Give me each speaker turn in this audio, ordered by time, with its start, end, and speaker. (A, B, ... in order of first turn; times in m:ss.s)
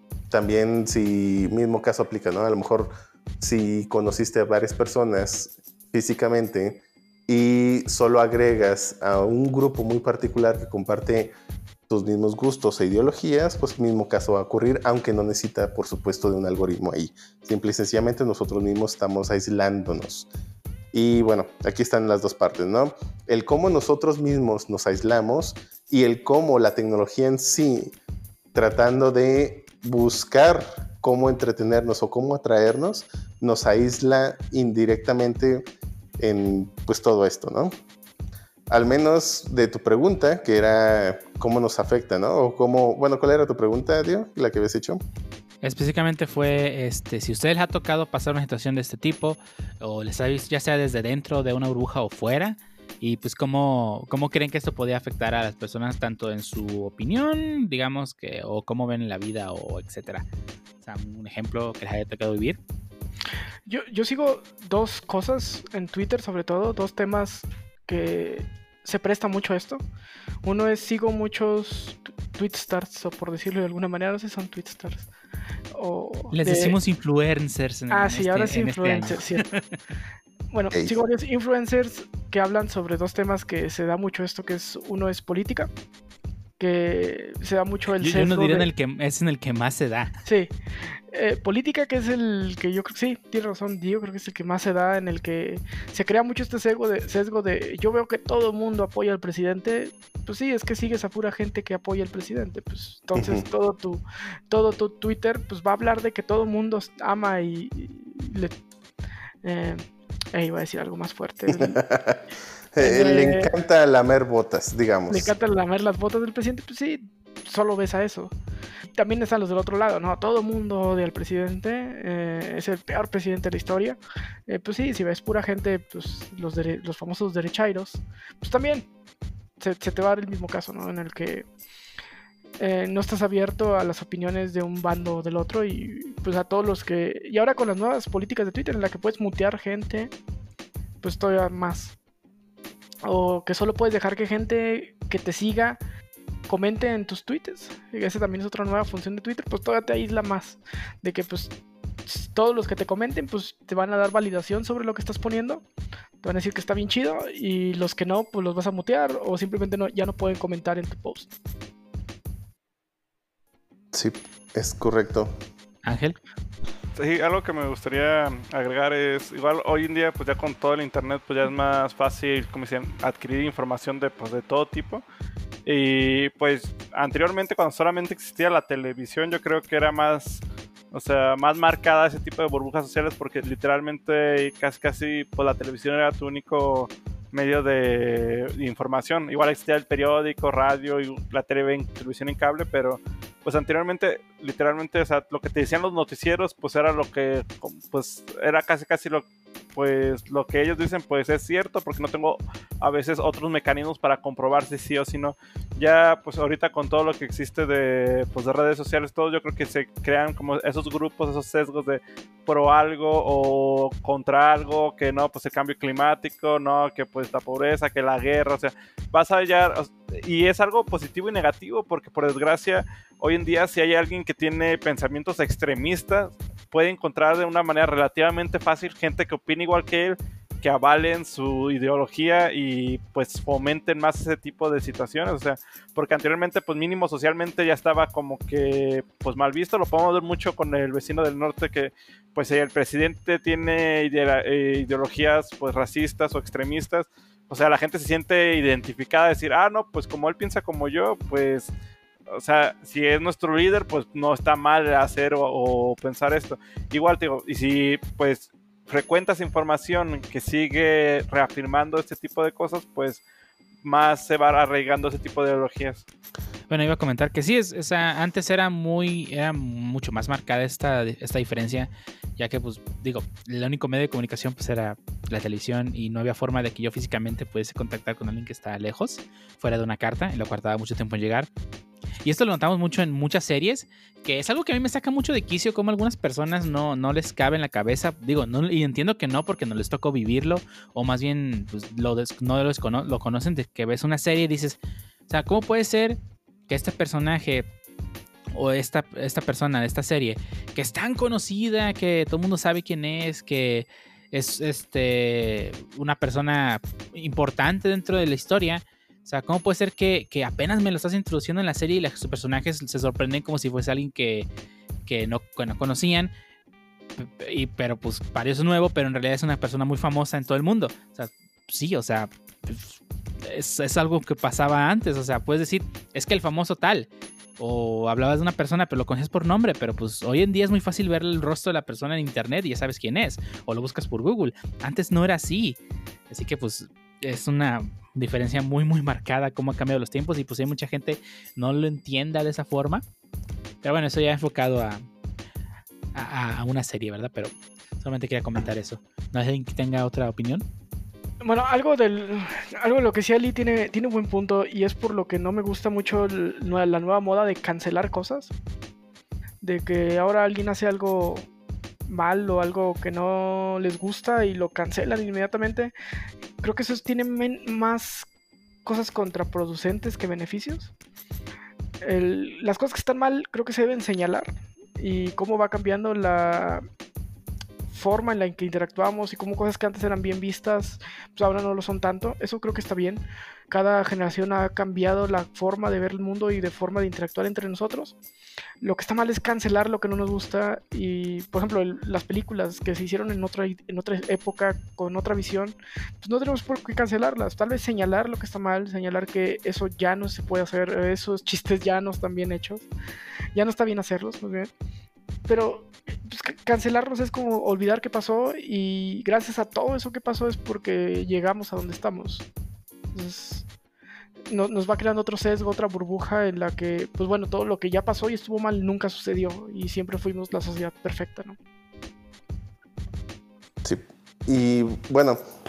0:00.3-0:11.3 A
0:11.9-0:20.3 A
0:20.9-0:27.9 A
0:28.5-0:35.6 A
0:36.2-0:37.7 A
0:38.7-0:45.0 A
0:45.6-1:00.2 B
1:00.8-1:02.6 B
1:03.7-1:09.8 C
1:10.4-1:15.1 C
1:15.7-1:16.8 C
1:16.3-1:19.8 B
1:17.9-1:19.4 C
1:20.5-1:25.7 C
1:20.7-1:21.0 A
1:26.6-1:28.7 C
1:27.9-1:30.1 B
1:30.2-1:30.5 C
1:31.1-1:48.5 C
1:43.2-1:43.4 A
1:49.4-1:51.8 C
1:51.5-1:52.2 A
1:52.7-1:55.3 A
1:52.8-1:53.5 C
1:55.1-1:58.3 C
1:59.0-2:08.9 C
2:09.6-2:11.5 C
2:12.6-2:20.1 C
2:21.0-2:21.9 C
2:23.0-2:25.8 C
2:26.5-2:31.5 C
2:32.1-2:35.6 C
2:36.2-2:41.3 C
2:43.9-2:45.3 A
2:45.8-2:46.2 B
2:47.0-2:55.0 D
2:55.6-4:11.7 D
4:12.3-4:23.2 D
4:23.8-4:26.0 D
4:26.7-4:41.5 B
4:42.2-4:57.7 B
4:58.5-5:14.5 B
5:15.0-5:16.3 B
5:17.2-5:27.1 B
5:27.6-5:35.8 B
5:36.3-5:43.0 B
5:43.8-5:45.0 B
5:46.1-5:50.6 B
5:51.4-5:58.5 C
5:59.6-6:01.5 C
6:02.1-6:05.9 C
6:06.6-6:08.3 C
6:08.8-6:10.9 C
6:12.0-6:16.8 C
6:17.9-6:28.1 C
6:28.8-6:42.9 C
6:43.5-6:44.7 C
6:45.5-6:52.4 C
6:53.1-6:53.6 C
6:54.5-7:01.6 C
7:03.8-7:05.4 A